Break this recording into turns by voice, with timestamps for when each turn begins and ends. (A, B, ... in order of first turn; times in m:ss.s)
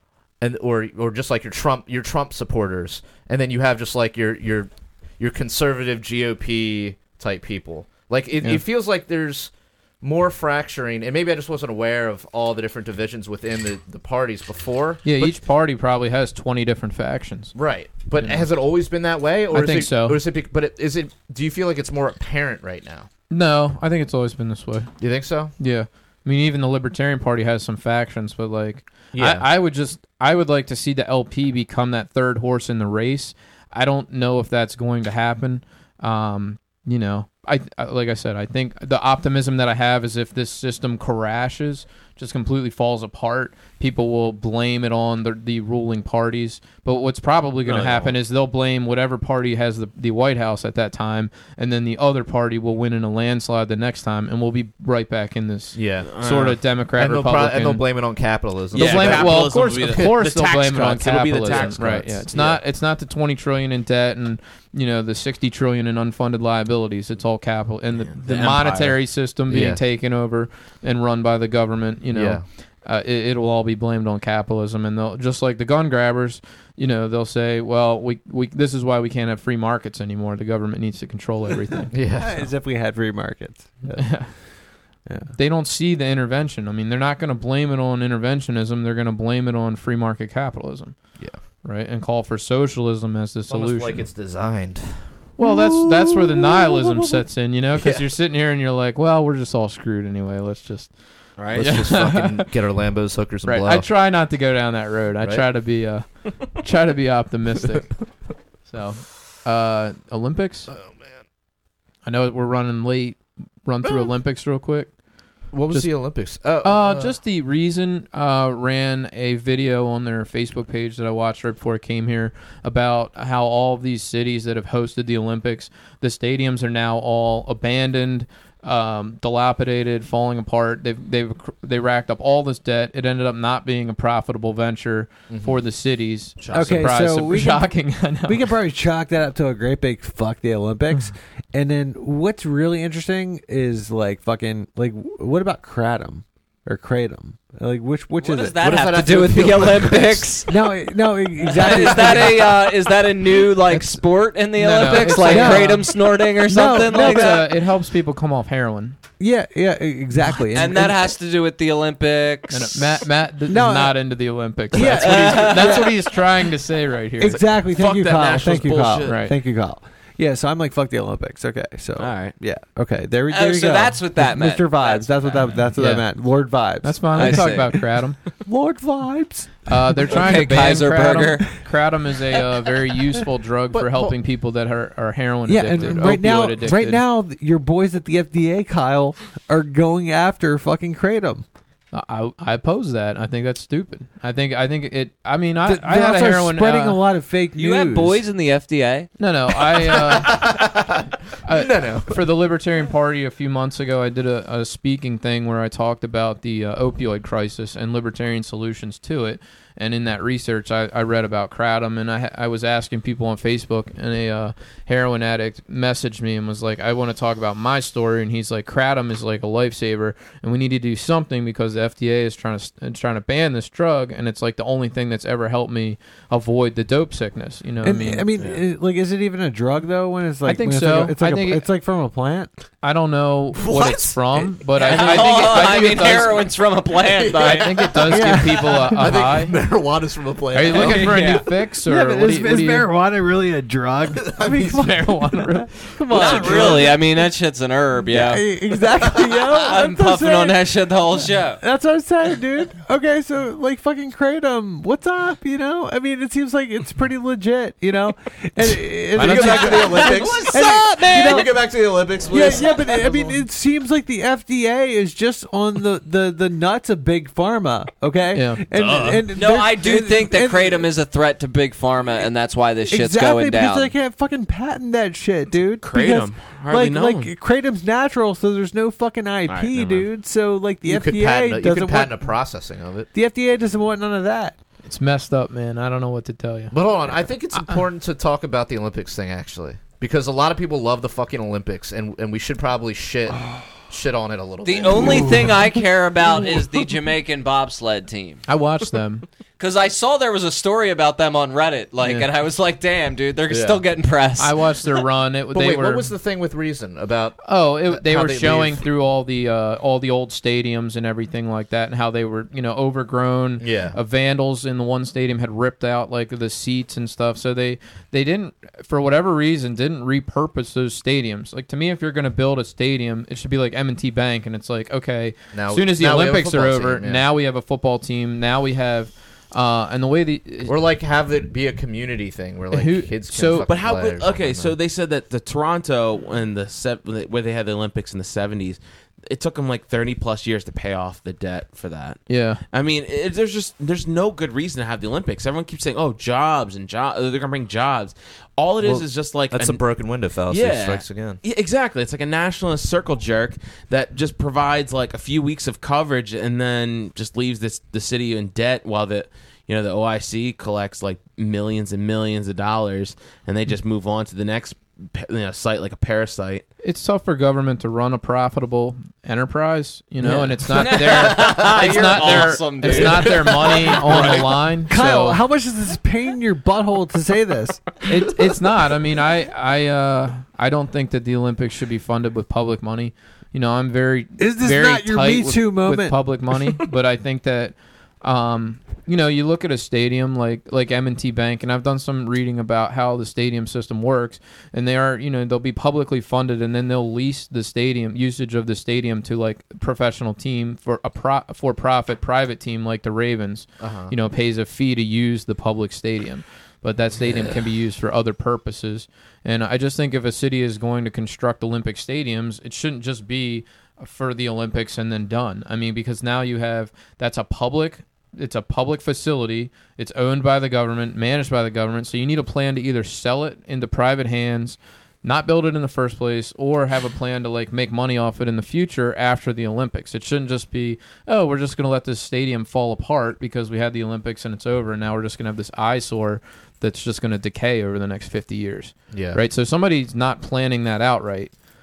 0:00.4-0:15.4 A
0:15.0-0:17.5 B
0:17.5-0:23.1 A
0:18.2-0:18.5 B
0:19.5-0:20.2 B
0:23.3-0:25.0 B
0:25.0-0:25.5 A
0:25.5-0:57.8 B
0:29.1-0:29.4 A
0:47.6-0:48.1 C
0:55.7-0:56.1 A
0:56.1-0:56.6 C
0:56.8-1:00.1 A
0:58.7-1:02.2 C
0:58.7-1:21.9 B
1:01.5-1:02.6 A
1:07.9-1:09.2 C
1:09.5-1:09.8 A
1:12.1-1:12.4 A
1:21.9-1:22.5 A
1:22.1-1:24.5 D
1:24.0-1:24.3 B
1:25.0-1:25.3 D
1:25.3-1:34.1 B
1:33.5-1:35.3 A
1:35.4-1:42.5 B
1:35.4-1:37.0 D
1:37.8-1:38.0 A
1:41.4-1:41.8 C
1:41.5-1:43.9 A
1:43.4-1:48.1 B
1:48.6-1:50.7 B
1:50.7-1:51.2 A
1:52.0-1:55.0 B
1:53.8-1:54.1 A
1:55.5-2:18.5 B
1:55.5-1:57.1 A
2:15.3-2:15.6 A
2:16.4-2:17.0 A
2:16.5-2:28.6 D
2:28.2-2:30.5 E
2:28.6-2:30.3 A
2:30.5-2:32.6 D
2:31.5-2:37.5 E
2:31.6-2:32.2 A
2:33.7-2:35.9 B
2:35.2-2:35.9 D
2:36.5-2:37.4 D
2:36.7-2:39.0 B
2:39.2-2:41.1 D
2:40.5-2:43.0 E
2:42.5-2:47.4 B
2:43.5-2:46.1 D
2:44.8-2:45.8 A
2:44.8-2:45.9 E
2:47.2-2:57.8 D
2:47.3-2:49.3 C
2:49.0-2:49.3 B
2:52.0-2:52.4 C
2:53.3-2:55.6 E
2:55.8-2:58.2 B
2:57.2-2:57.9 E
2:58.4-3:00.2 D
2:59.7-3:07.0 B
3:00.1-3:01.6 E
3:03.7-3:04.2 A
3:05.5-3:11.4 D
3:11.9-3:17.0 B
3:15.6-3:18.2 D
3:17.6-3:19.1 E
3:19.2-3:20.8 B
3:19.8-3:22.2 A
3:21.4-3:48.3 B
3:47.8-3:52.5 D
3:48.4-3:48.6 C
3:50.4-3:51.7 B
3:52.8-3:56.5 B
3:53.6-4:01.1 A
3:54.8-3:58.0 E
3:57.3-3:59.6 B
3:58.1-3:59.1 D
4:00.5-4:02.9 B
4:00.7-4:01.4 E
4:00.9-4:07.2 D
4:04.2-4:04.7 A
4:04.6-4:05.8 B
4:06.0-4:06.9 A
4:06.1-4:08.5 E
4:08.0-4:10.6 D
4:09.6-4:11.6 E
4:11.6-4:21.7 D
4:19.2-4:19.8 B
4:19.2-4:23.4 A
4:19.6-4:21.5 E
4:22.3-4:30.9 D
4:28.3-4:28.6 B
4:28.7-4:29.2 C
4:29.3-4:33.9 E
4:32.9-4:42.5 D
4:35.8-4:37.3 C
4:39.5-4:40.1 C
4:40.8-4:43.1 A
4:43.1-4:44.6 D
4:44.8-4:47.8 B
4:46.7-4:55.6 A
4:54.6-4:58.4 E
4:58.5-4:59.3 B
4:59.6-5:04.6 E
5:02.0-5:02.3 B
5:03.5-5:03.8 A
5:04.4-5:06.1 B
5:05.5-5:08.8 A
5:07.4-5:30.8 B
5:13.6-5:14.0 A
5:25.5-5:27.2 A
5:30.7-5:34.8 A
5:32.7-5:33.7 B
5:33.6-6:06.7 C
5:42.3-5:42.6 B
5:48.8-5:51.4 A
6:06.8-6:15.4 B
6:10.3-6:14.5 A
6:10.7-6:13.7 E
6:14.3-6:17.9 D
6:18.0-7:21.5 B
6:24.4-6:26.2 D
6:43.8-6:44.1 A
7:19.1-7:19.4 A